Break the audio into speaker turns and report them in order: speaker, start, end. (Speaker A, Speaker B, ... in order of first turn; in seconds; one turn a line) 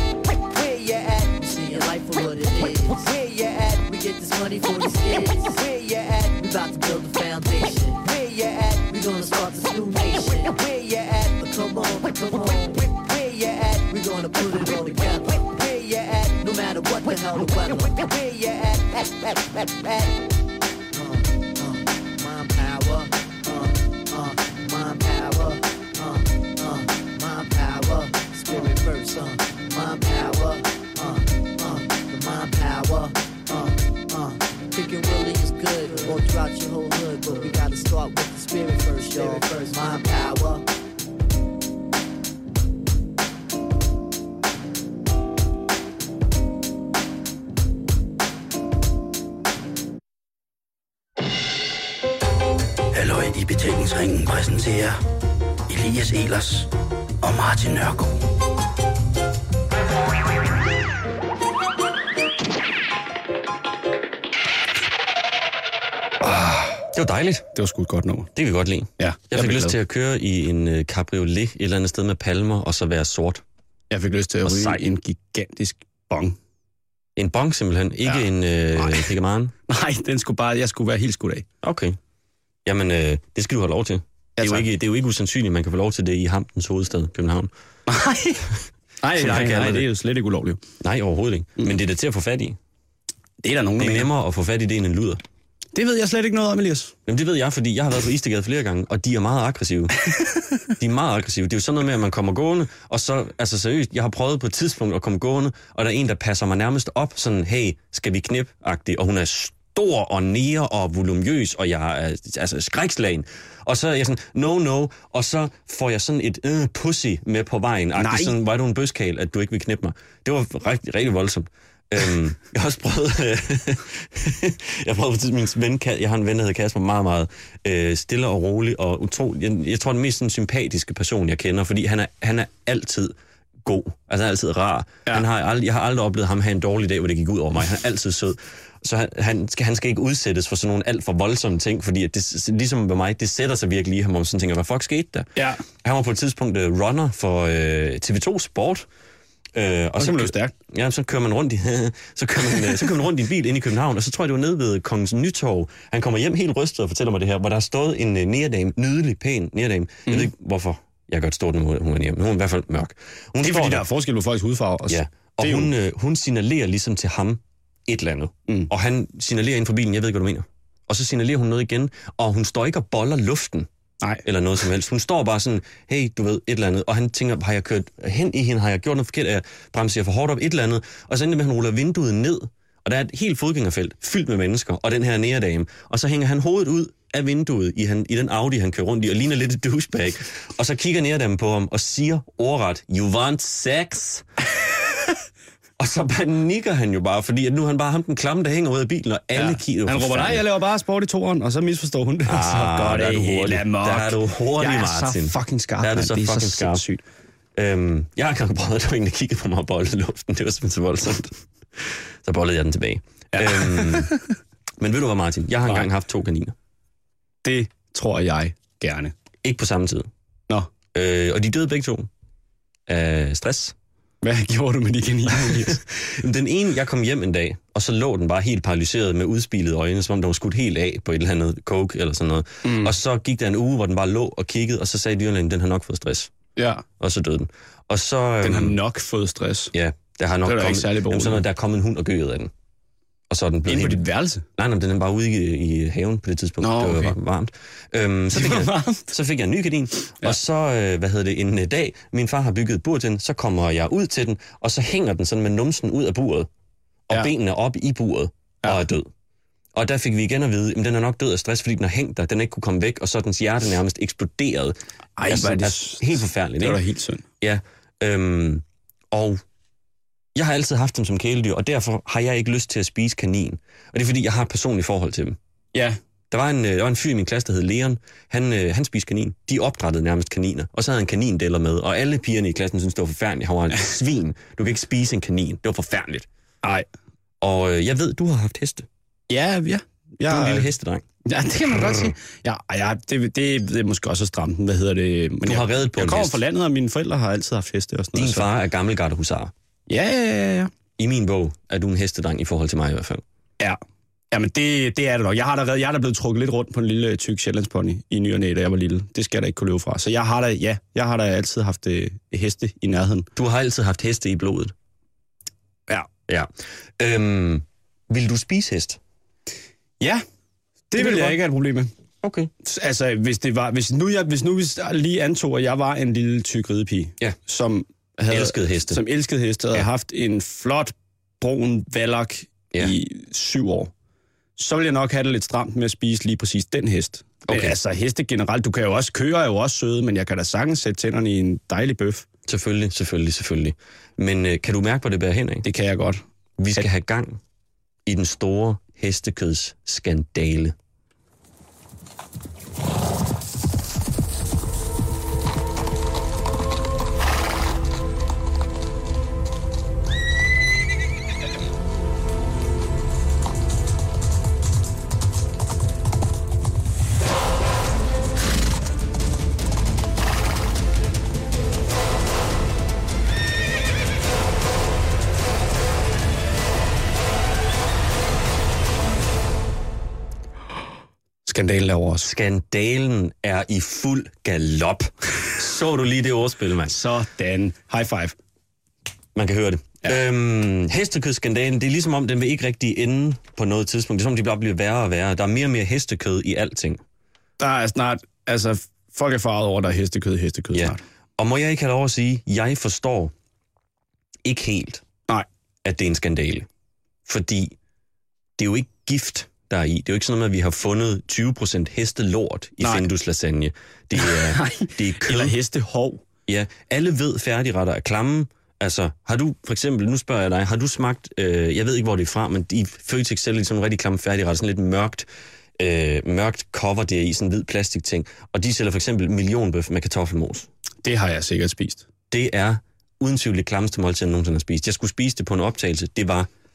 Speaker A: 0.4-20.1
Speaker A: 20.9-40.6
Speaker B: 52.9-54.9
Speaker B: 55.7-56.6
Speaker B: 57.2-58.1
Speaker C: 66.2-66.8
Speaker D: 66.9-67.5
Speaker C: 67.5-68.3
Speaker D: 68.3-73.4
Speaker C: 69.0-69.8
Speaker C: 73.9-76.4
Speaker D: 74.4-74.8
Speaker D: 77.2-79.5
Speaker C: 78.8-79.1
Speaker C: 79.7-81.4
Speaker D: 81.6-82.0
Speaker D: 82.6-87.5
Speaker C: 84.4-84.7
Speaker C: 87.9-88.5
Speaker C: 89.0-90.6
Speaker D: 89.2-89.9
Speaker D: 90.8-92.6
Speaker C: 93.4-94.1
Speaker D: 93.8-95.2
Speaker C: 95.7-96.9
Speaker D: 97.1-99.9
Speaker D: 100.8-145.3
Speaker C: 118.0-118.3
Speaker C: 145.3-145.6
Speaker D: 145.8-148.9
Speaker D: 149.5-163.8
Speaker C: 150.0-150.5
Speaker C: 163.4-165.7
Speaker D: 164.9-173.7
Speaker D: 174.2-194.2
Speaker D: 195.8-200.4
Speaker C: 199.3-207.0
Speaker D: 202.2-206.8
Speaker D: 207.6-214.1
Speaker C: 213.3-214.3
Speaker D: 214.8-216.5
Speaker C: 217.4-219.1
Speaker D: 219.4-220.1
Speaker D: 220.9-222.1
Speaker D: 222.9-223.7
Speaker C: 224.2-225.8
Speaker D: 225.3-236.3
Speaker C: 232.6-232.9
Speaker C: 236.6-236.8
Speaker D: 237.0-238.8
Speaker C: 238.4-239.7
Speaker D: 239.7-242.5
Speaker C: 240.4-241.4
Speaker D: 243.3-244.0
Speaker C: 243.7-244.4
Speaker D: 244.6-256.5
Speaker C: 246.6-247.2
Speaker C: 248.3-249.1
Speaker D: 257.1-259.1
Speaker D: 259.7-266.8
Speaker C: 265.2-267.2
Speaker D: 267.4-269.4
Speaker D: 270.3-275.4
Speaker D: 276.3-286.2
Speaker D: 287.4-288.9
Speaker C: 289.3-290.7
Speaker D: 290.3-291.0
Speaker C: 291.2-298.5
Speaker D: 295.4-296.4
Speaker D: 298.1-299.5
Speaker C: 299.9-300.7
Speaker D: 301.0-303.2
Speaker C: 304.3-313.3
Speaker D: 313.4-314.7
Speaker D: 316.3-319.0
Speaker C: 320.9-321.9
Speaker D: 320.9-321.4
Speaker D: 322.2-322.5
Speaker C: 322.6-333.9
Speaker D: 328.3-329.0
Speaker C: 334.6-342.3
Speaker D: 337.5-337.8
Speaker D: 342.5-345.6
Speaker C: 345.6-346.2
Speaker D: 346.6-347.4
Speaker D: 348.1-350.7
Speaker C: 381.4-382.3
Speaker D: 382.2-387.0
Speaker C: 386.9-388.3
Speaker D: 389.3-397.0
Speaker C: 397.6-401.0
Speaker D: 400.7-403.3
Speaker D: 404.4-405.0
Speaker D: 405.8-406.7
Speaker D: 407.2-407.7
Speaker D: 408.6-415.6
Speaker C: 412.8-413.1
Speaker C: 414.2-416.2
Speaker D: 416.5-425.3
Speaker D: 425.8-430.7
Speaker C: 431.0-432.0
Speaker D: 432.3-436.5